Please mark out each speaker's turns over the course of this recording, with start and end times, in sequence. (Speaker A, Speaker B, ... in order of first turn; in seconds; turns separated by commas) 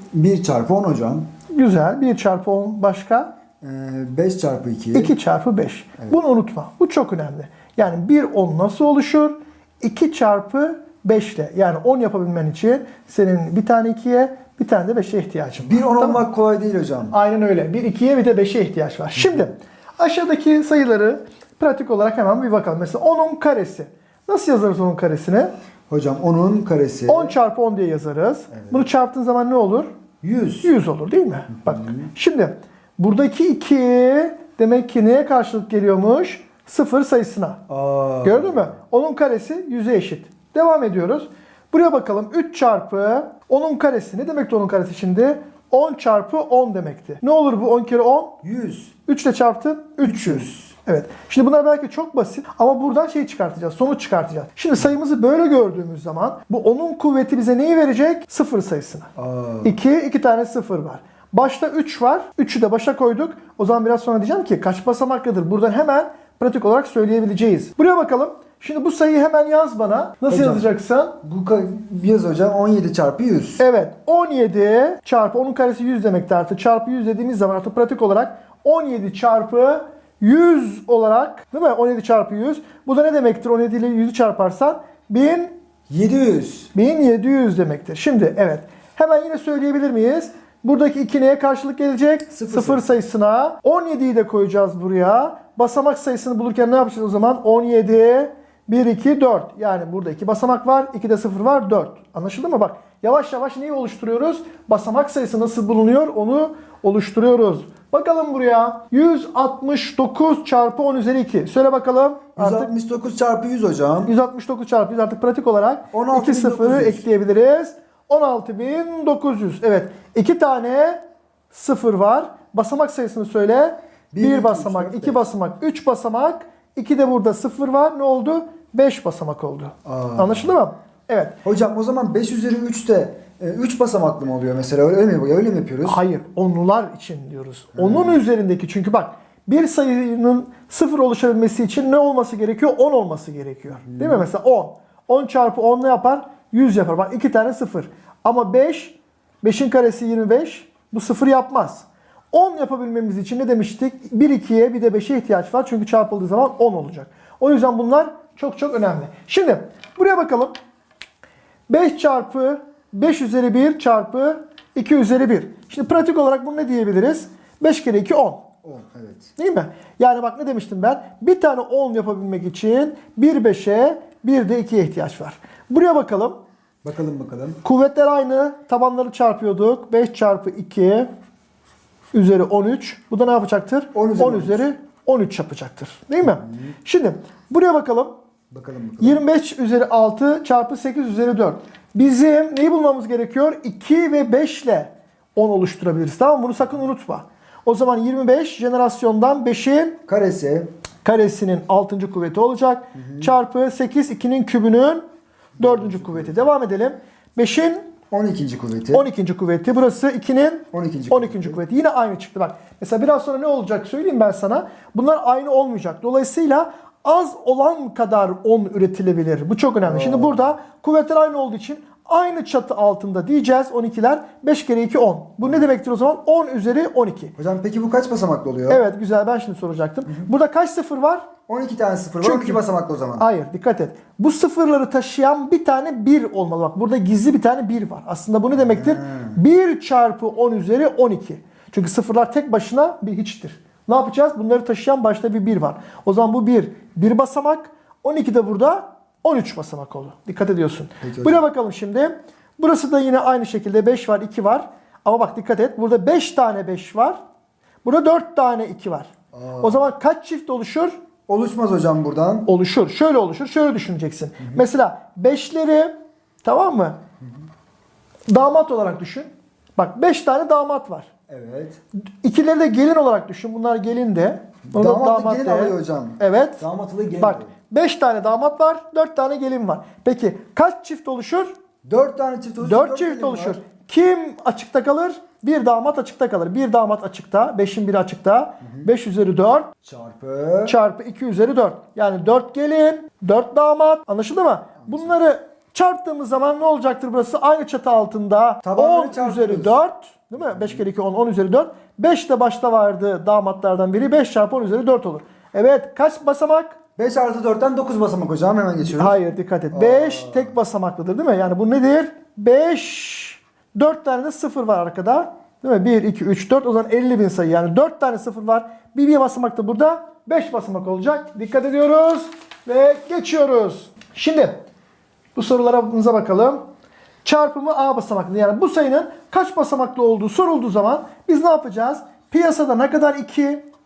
Speaker A: 0.1-1.3, Speaker B: 1.5-3.3, Speaker A: 3.6-5.1, Speaker B: 4.9-16.2, Speaker A: 15.6-17.1, Speaker B: 17.1-25.5, Speaker A: 25.9-27.4, Speaker B: 27.1-29.9, Speaker A: 28.5-28.8, Speaker A: 30.2-30.7, Speaker B: 30.6-37.7, Speaker A: 31.7-31.9, Speaker A: 37.7-38.7, Speaker B: 38.2-48.4, Speaker A: 48.4-48.9, Speaker B: 49.0-59.1, Speaker A: 50.0-50.6, Speaker A: 59.2-59.7, Speaker B: 59.6-71.2, Speaker A: 70.3-70.7, Speaker A: 71.2-73.6, Speaker B: 73.6-85.5, Speaker A: 85.9-86.7, Speaker B: 86.7-112.7, Speaker A: 92.3-92.9, Speaker A: 112.4-114.1, Speaker B: 114.0-131.4, Speaker A: 115.9-117.0, Speaker A: 124.1-125.2, Speaker A: 129.9-130.5, Speaker A: 131.4-136.0, Speaker B: 135.8-160.6, Speaker A: 137.8-138.2, Speaker A: 143.9-144.2, Speaker B: 161.7-168.4, Speaker A: 168.6-169.3, Speaker B: 169.4-176.4, Speaker A: 176.8-177.6, Speaker B: 177.6-181.1, Speaker B: 182.1-188.1, Speaker A: 183.9-184.6, Speaker A: 188.5-189.2, Speaker B: 189.0-200.0, Speaker A: 200.1-200.7, Speaker B: 201.0-205.0, Speaker A: 202.9-203.3, Speaker A: 205.6-206.5, Speaker B: 205.6-207.9, Speaker A: 208.1-209.1, Speaker B: 208.9-227.3, Speaker A: 210.7-211.6, Speaker A: 219.8-220.4, Speaker A: 227.4-228.8, Speaker B: 228.7-231.3, Speaker A: 231.5-233.2, Speaker B: 232.2-232.6, Speaker B: 233.2-257.2, Speaker A: 238.6-239.4, Speaker A: 251.0-251.4, Speaker B: 257.8-261.0, Speaker A: 259.3-259.9, Speaker A: 261.3-262.5, Speaker B: 262.4-265.9, Speaker B: 266.4-267.0, Speaker B: 268.3-271.1, Speaker A: 271.3-271.8, Speaker B: 272.2-276.6, Speaker A: 274.7-277.5, Speaker B: 277.2-281.5, Speaker A: 281.8-283.6, Speaker B: 282.6-289.7, Speaker A: 288.6-288.9, Speaker A: 289.8-290.8, Speaker B: 290.6-306.8, Speaker A: 298.6-299.8, Speaker A: 307.0-309.2, Speaker B: 308.8-324.6, Speaker A: 309.7-310.5, Speaker B: 325.3-326.6, Speaker B: 327.2-333.6